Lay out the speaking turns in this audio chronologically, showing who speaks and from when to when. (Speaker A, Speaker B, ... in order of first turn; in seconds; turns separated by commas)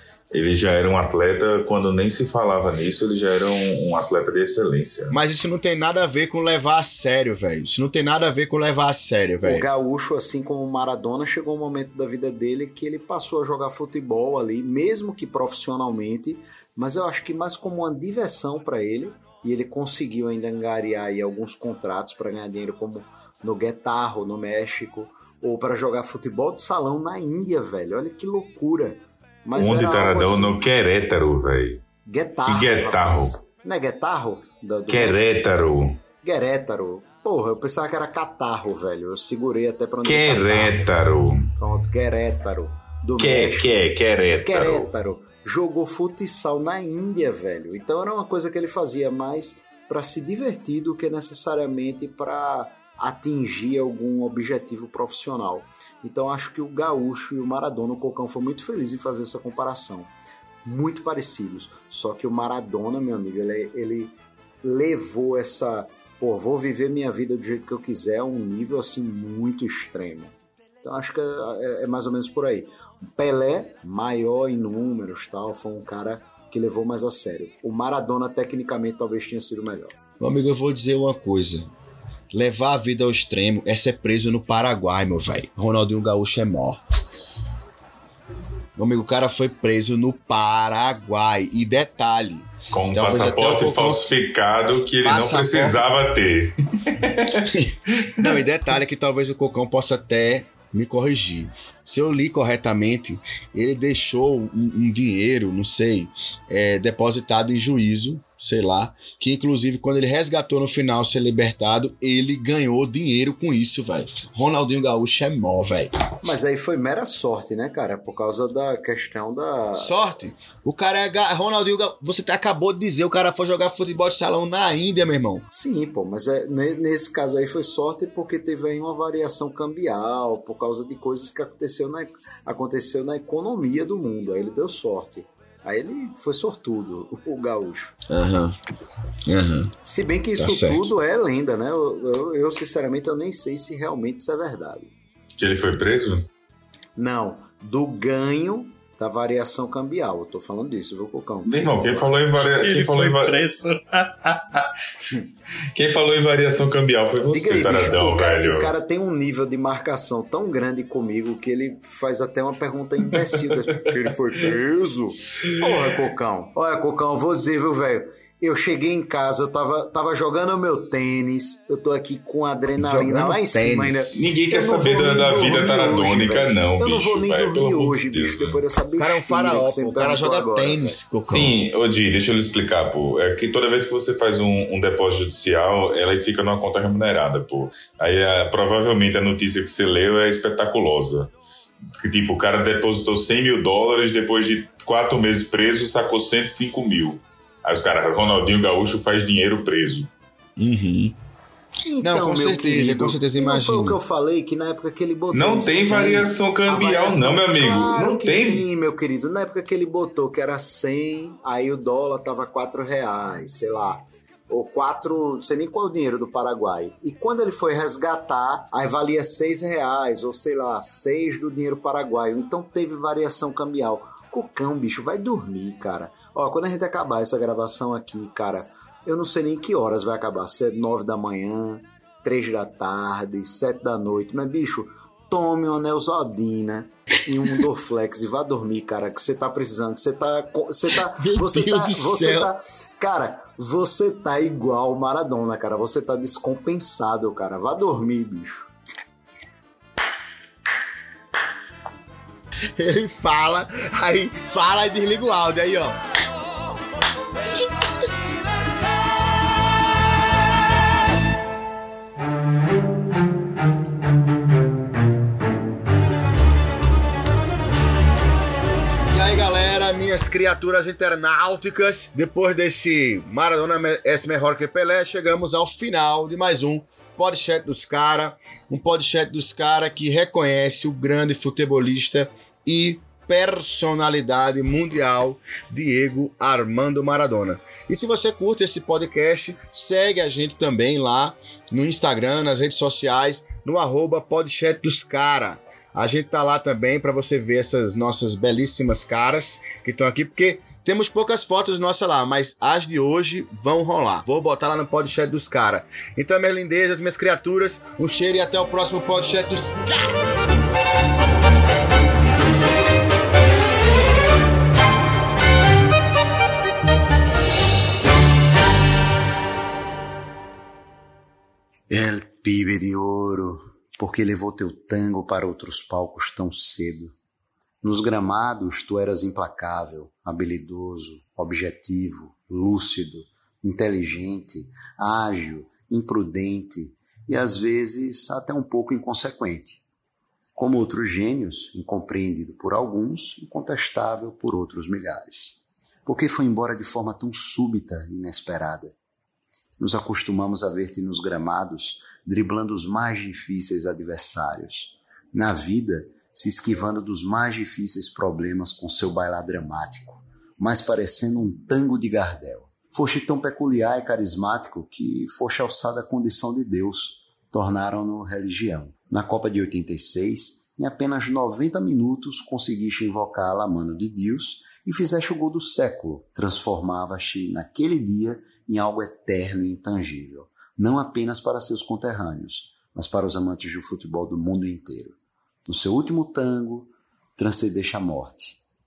Speaker A: 0.3-5.2, Speaker B: 5.1-9.7, Speaker C: 9.4-30.6, Speaker A: 29.5-31.8, Speaker C: 32.0-35.3, Speaker A: 32.4-33.3, Speaker A: 34.9-36.0, Speaker C: 36.2-40.8, Speaker A: 40.0-41.5, Speaker C: 41.6-43.8, Speaker A: 43.2-44.9, Speaker C: 44.4-60.1, Speaker C: 60.6-80.0, Speaker B: 80.2-81.7, Speaker B: 82.3-86.8, Speaker B: 88.8-94.1, Speaker A: 92.7-98.2, Speaker B: 95.0-95.8, Speaker B: 97.5-115.9, Speaker C: 116.2-120.1, Speaker B: 119.7-125.4, Speaker C: 125.5-137.9, Speaker B: 138.1-138.6, Speaker B: 139.3-139.7, Speaker C: 139.8-144.9, Speaker B: 140.4-140.9, Speaker A: 145.4-146.2, Speaker C: 146.9-152.3, Speaker A: 151.4-153.3, Speaker D: 152.4-154.7, Speaker A: 155.7-158.7, Speaker C: 157.3-181.0, Speaker B: 172.8-174.2, Speaker A: 174.1-178.6, Speaker B: 179.0-181.6, Speaker A: 181.2-191.3, Speaker A: 191.9-200.1, Speaker B: 200.6-201.2, Speaker C: 201.8-248.7, Speaker B: 202.0-204.0, Speaker A: 205.3-208.6, Speaker B: 241.0-242.5, Speaker B: 252.8-256.0, Speaker B: 257.5-258.0, Speaker B: 269.1-310.2, Speaker C: 321.9-327.1, Speaker C: 327.8-339.8, Speaker C: 340.6-348.9, Speaker C: 349.8-385.2, Speaker C: 385.7-388.6